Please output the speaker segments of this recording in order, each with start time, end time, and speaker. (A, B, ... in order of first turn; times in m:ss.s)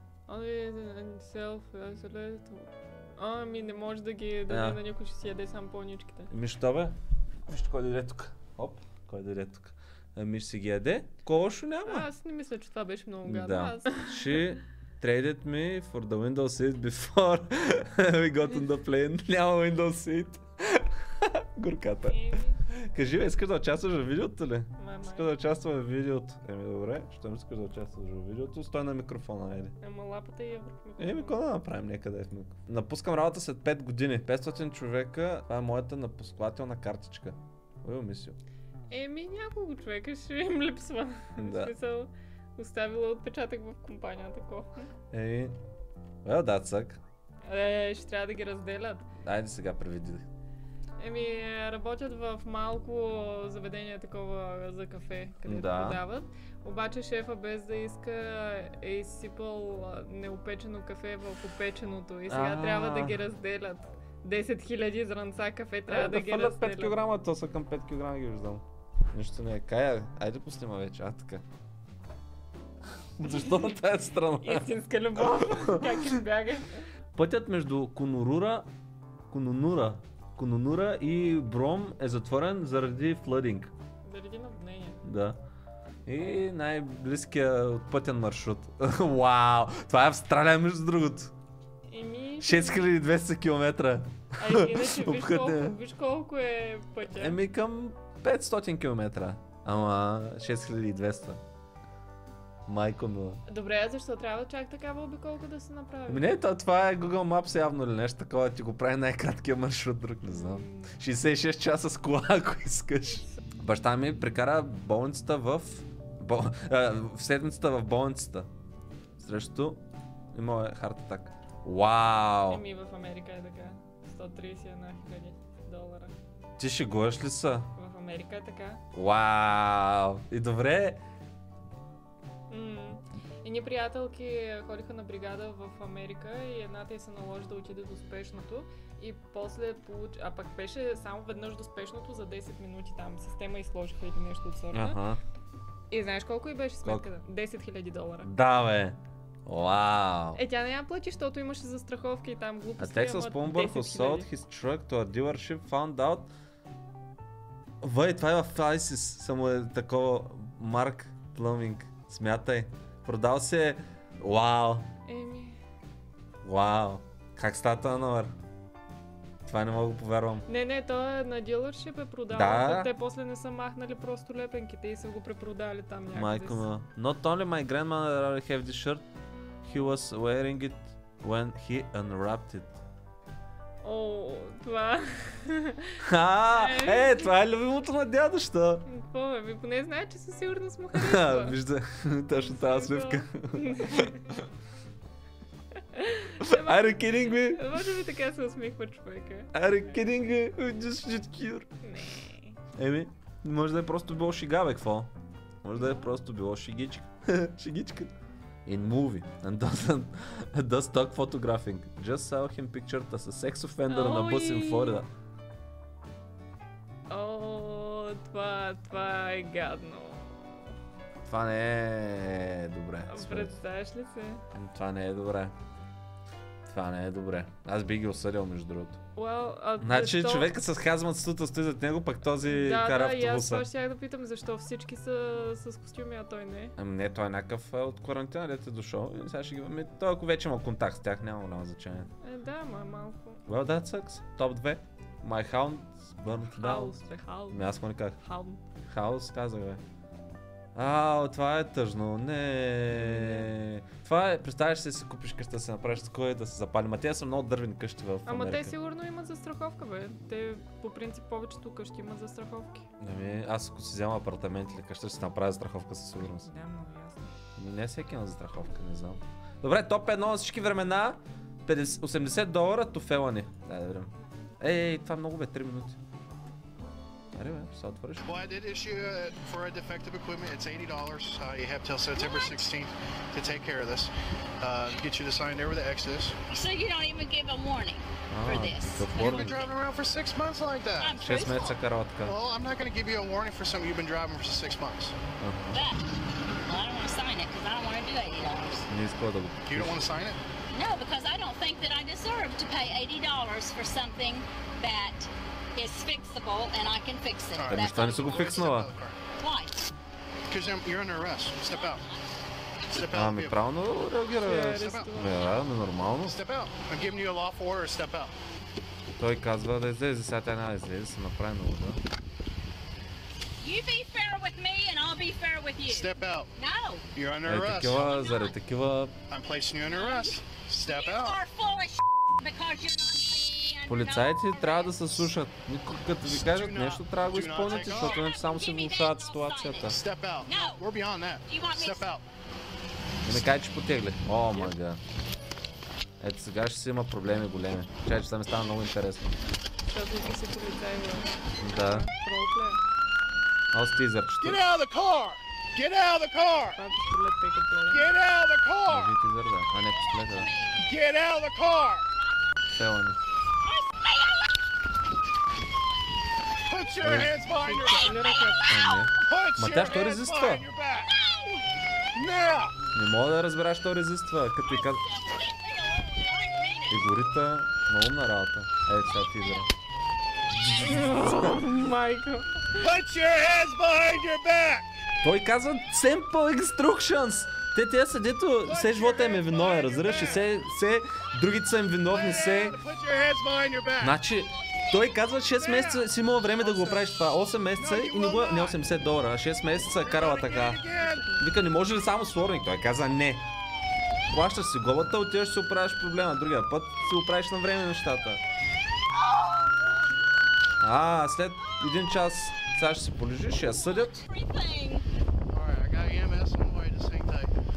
0:00.3-0:06.3 A
0:04.5-0:04.8 B
0:06.3-0:06.9 B
0:07.5-0:12.0 B
0:11.8-0:14.4 A
0:13.2-0:22.2 B
0:22.0-0:22.6 A
0:22.8-0:29.8 B
0:24.8-0:25.3 A
0:29.8-0:31.4 A
0:31.0-0:38.4 B
0:38.9-0:44.7 A
0:41.4-0:41.7 B
0:45.1-0:45.6 B
0:46.2-0:47.0 B
0:47.4-0:49.0 A
0:49.2-0:50.3 B
0:51.0-1:07.0 A
0:55.4-0:56.0 B
1:02.3-1:03.2 B
1:05.9-1:11.4 B
1:13.2-1:14.7 B
1:13.3-1:13.7 A
1:14.4-1:16.8 A
1:15.4-1:15.9 B
1:17.1-1:18.7 B
1:19.3-1:23.7 B
1:24.0-1:25.0 A
1:25.0-1:25.4 B
1:26.0-1:31.3 B
1:31.9-1:32.9 A
1:32.4-1:35.8 B
1:34.4-1:37.4 A
1:37.1-1:41.4 B
1:42.7-1:43.4 B
1:43.4-1:46.4 A
1:46.1-1:58.5 B
1:50.2-1:50.9 A
1:59.2-1:59.8 B
2:00.3-2:02.6 B
2:02.5-2:06.1 A
2:06.6-2:07.7 B
2:07.8-2:08.8 A
2:08.9-2:11.0 B
2:12.5-2:25.0 A
2:24.7-2:25.2 B
2:25.9-2:28.3 A
2:28.2-2:30.4 B
2:30.4-2:34.3 A
2:32.8-2:36.3 B
2:37.8-2:44.9 B
2:45.0-2:45.6 A
2:46.4-2:48.3 B
2:49.4-2:50.4 B
2:50.4-2:56.6 A
2:52.3-2:52.9 B
2:56.1-2:59.0 B
2:59.6-3:02.8 B
3:03.8-3:06.0 A
3:06.0-3:08.9 B
3:06.5-3:07.3 A
3:08.8-3:11.6 A
3:10.9-3:14.4 B
3:12.3-3:14.3 A
3:15.8-3:19.5 A
3:16.4-3:17.6 B
3:19.5-3:21.7 B
3:21.8-3:22.6 A
3:22.7-3:25.1 B
3:25.6-3:28.1 B
3:25.7-3:26.1 A
3:28.6-3:35.1 B
3:33.9-3:35.0 A
3:37.1-3:40.7 A
3:41.2-3:43.6 B
3:43.1-3:44.4 A
3:44.5-3:45.5 B
3:46.6-3:49.0 B
3:49.2-3:50.5 A
3:49.8-3:53.7 B
3:52.5-3:56.7 A
3:56.8-4:02.1 B
4:02.2-4:03.4 A
4:03.4-4:07.0 B
4:06.5-4:08.6 A
4:07.5-4:08.2 B
4:08.9-4:09.8 B
4:10.7-4:18.7 B
4:12.9-4:13.5 A
4:18.2-4:22.8 A
4:23.0-4:26.5 B
4:26.2-4:27.3 A
4:27.6-4:36.0 B
4:37.3-4:38.3 B
4:38.2-4:46.3 C
4:42.3-4:42.6 D
4:46.5-4:49.3 D
4:48.3-4:49.6 B
4:49.2-4:51.2 C
4:51.0-4:51.8 D
4:51.2-4:52.4 B
4:52.2-4:55.2 C
4:55.4-4:55.8 B
4:55.7-4:56.0 D
4:56.6-4:58.9 D
4:58.9-5:00.0 B
4:59.6-5:00.4 C
5:00.7-5:08.7 D
5:07.5-5:09.2 C
5:07.7-5:08.9 B
5:09.4-5:09.8 D
5:10.5-5:12.0 C
5:11.6-5:12.2 D
5:12.8-5:13.0 D
5:12.9-5:13.6 C
5:13.1-5:16.4 B
5:14.4-5:15.4 A
5:14.5-5:15.1 C
5:16.2-5:18.3 C
5:19.2-5:22.0 B
5:23.6-5:27.0 D
5:25.9-5:26.5 C
5:27.1-5:28.0 C
5:27.4-5:29.1 B
5:27.9-5:28.5 D
5:29.3-5:31.4 C
5:29.8-5:35.3 D
5:33.9-5:40.0 B
5:36.2-5:38.2 C
5:38.0-5:40.9 D
5:39.8-5:42.2 C
5:41.4-5:42.2 D
5:43.2-5:45.0 B
5:46.2-5:49.4 B
5:49.9-5:52.8 A
5:51.6-5:52.0 B
5:53.7-5:54.6 B
5:54.4-5:56.8 C
5:56.7-5:58.1 A
5:57.9-5:59.1 C
5:58.8-6:00.5 B
5:59.9-6:00.9 D
6:00.8-6:02.0 C
6:02.7-6:03.2 B
6:06.7-6:08.6 C
6:07.0-6:07.4 B
6:07.5-6:08.5 A
6:07.8-6:09.0 D
6:08.6-6:10.6 B
6:09.2-6:11.3 C
6:12.1-6:12.7 C
6:12.9-6:15.0 B
6:14.6-6:17.1 D
6:16.9-6:19.7 B
6:20.8-6:22.8 A
6:22.7-6:24.9 C
6:25.2-6:32.8 B
6:28.6-6:30.5 C
6:32.1-6:34.2 C
6:34.0-6:43.4 B
6:35.5-6:37.1 C
6:37.7-6:38.8 C
6:39.9-6:41.4 C
6:41.0-6:41.3 A
6:44.3-6:48.4 B
6:50.8-6:54.2 B
6:53.7-6:55.1 D
6:55.5-6:57.6 C